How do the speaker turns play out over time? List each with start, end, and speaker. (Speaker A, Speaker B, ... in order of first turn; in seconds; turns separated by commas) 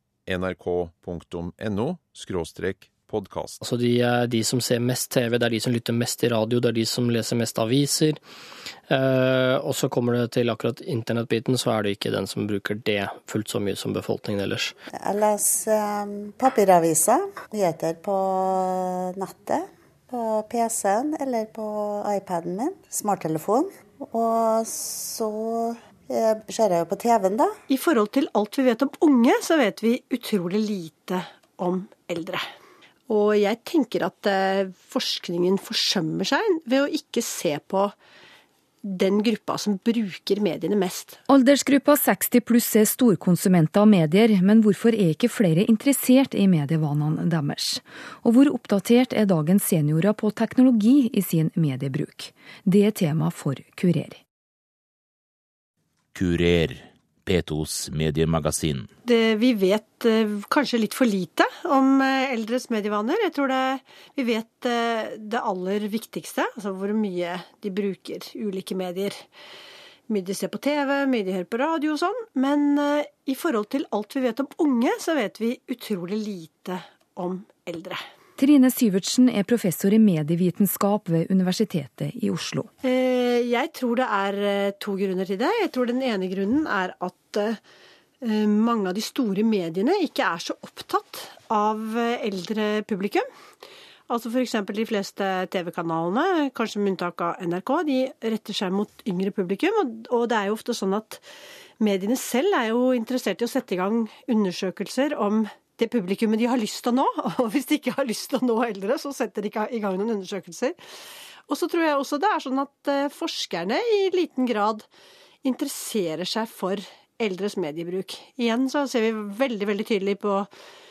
Speaker A: 0.2-3.6, Speaker B: 3.6-8.2, Speaker B: 8.9-14.7, Speaker C: 14.9-27.5, Speaker D: 27.7-32.5, Speaker D: 33.1-37.9, Speaker D: 38.8-41.1, Speaker E: 41.3-54.2, Speaker F: 56.1-58.9, Speaker D: 59.0-69.2, Speaker D: 70.1-78.0, Speaker E: 78.4-82.7, Speaker D: 82.8-87.6, Speaker D: 88.2-93.3, Speaker D: 94.1-101.2, Speaker D: 101.8-110.8, Speaker D: 111.5-114.9, Speaker D: 115.4-120.5